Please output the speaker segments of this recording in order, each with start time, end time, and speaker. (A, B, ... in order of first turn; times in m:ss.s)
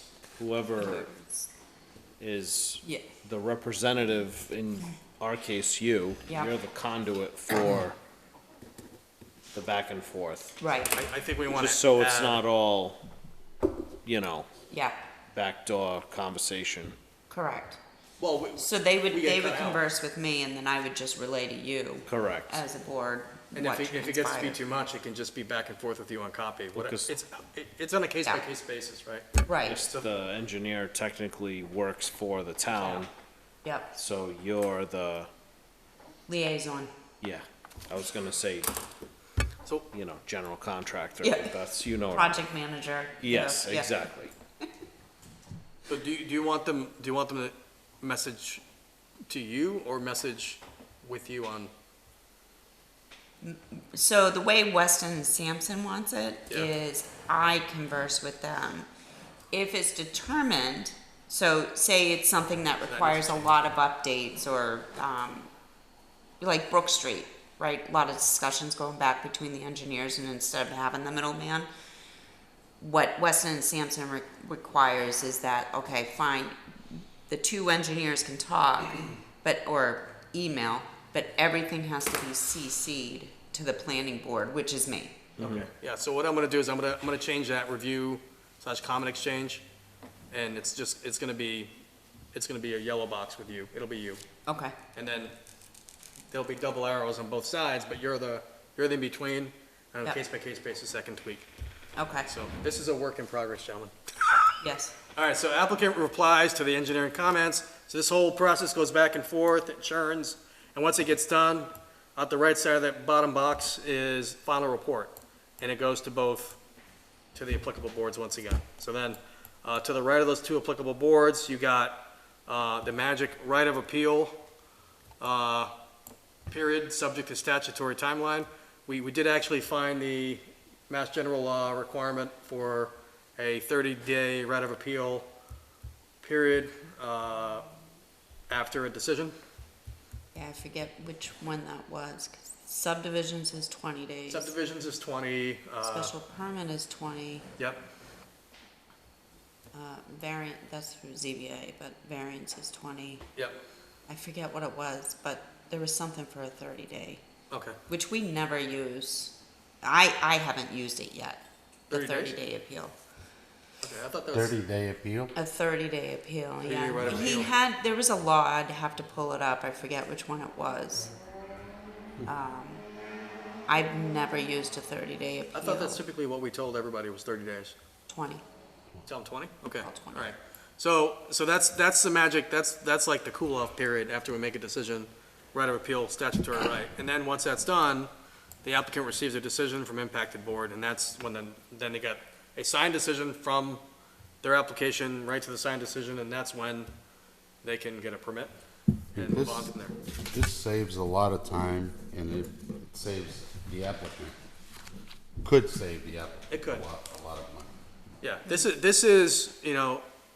0:00.4-0:01.1 A
0:00.8-0:01.5 B
0:02.2-0:08.0 A
0:02.8-0:03.1 B
0:06.3-0:06.5 B
0:07.5-0:07.8 B
0:09.5-0:10.6 A
0:10.6-0:11.0 B
0:10.9-0:12.4 C
0:11.5-0:13.0 A
0:14.0-0:14.5 A
0:14.7-0:15.0 B
0:15.3-0:17.0 A
0:17.3-0:17.8 B
0:18.2-0:19.8 C
0:18.6-0:24.6 B
0:22.0-0:22.6 A
0:23.5-0:30.1 C
0:26.7-0:27.1 A
0:29.4-0:29.8 B
0:29.6-0:33.1 A
0:32.7-0:33.1 C
0:33.6-0:33.9 B
0:33.9-0:35.3 A
0:36.3-0:36.9 B
0:37.2-0:38.7 A
0:39.9-0:42.4 A
0:41.2-0:44.1 B
0:43.2-0:44.3 A
0:45.9-0:48.6 C
0:49.3-0:51.7 C
0:53.4-0:58.9 B
0:59.5-1:05.5 B
1:02.8-1:03.5 C
1:06.4-1:11.7 B
1:12.8-1:25.2 B
1:25.4-1:25.7 A
1:25.4-1:29.6 C
1:30.3-1:31.7 C
1:32.3-1:34.2 C
1:34.4-1:34.7 B
1:34.9-1:35.3 C
1:36.3-1:41.5 C
1:42.0-1:42.3 B
1:42.2-1:44.5 C
1:44.6-1:44.9 B
1:45.1-1:56.6 C
1:57.3-2:04.4 C
2:05.2-2:05.7 C
2:06.5-2:15.3 C
2:16.2-2:17.7 C
2:18.5-2:19.3 C
2:20.3-2:24.5 B
2:24.3-2:26.1 C
2:25.8-2:27.5 B
2:27.6-2:27.8 C
2:29.7-2:33.2 B
2:34.1-2:37.2 B
2:37.5-2:37.8 C
2:37.9-2:42.9 B
2:41.9-2:42.4 C
2:43.8-2:44.6 C
2:44.3-2:45.3 D
2:45.3-2:51.1 B
2:46.6-2:47.5 C
2:52.2-2:52.8 B
2:53.7-2:56.0 B
2:55.5-2:57.8 C
2:58.1-2:58.4 B
2:59.0-3:08.1 C
2:59.8-3:00.3 B
3:08.6-3:13.8 C
3:14.4-3:16.9 C
3:17.6-3:18.5 C
3:19.1-3:19.7 D
3:19.1-3:19.9 C
3:20.2-3:24.4 D
3:25.4-3:27.7 D
3:26.5-3:26.8 C
3:28.2-3:30.0 C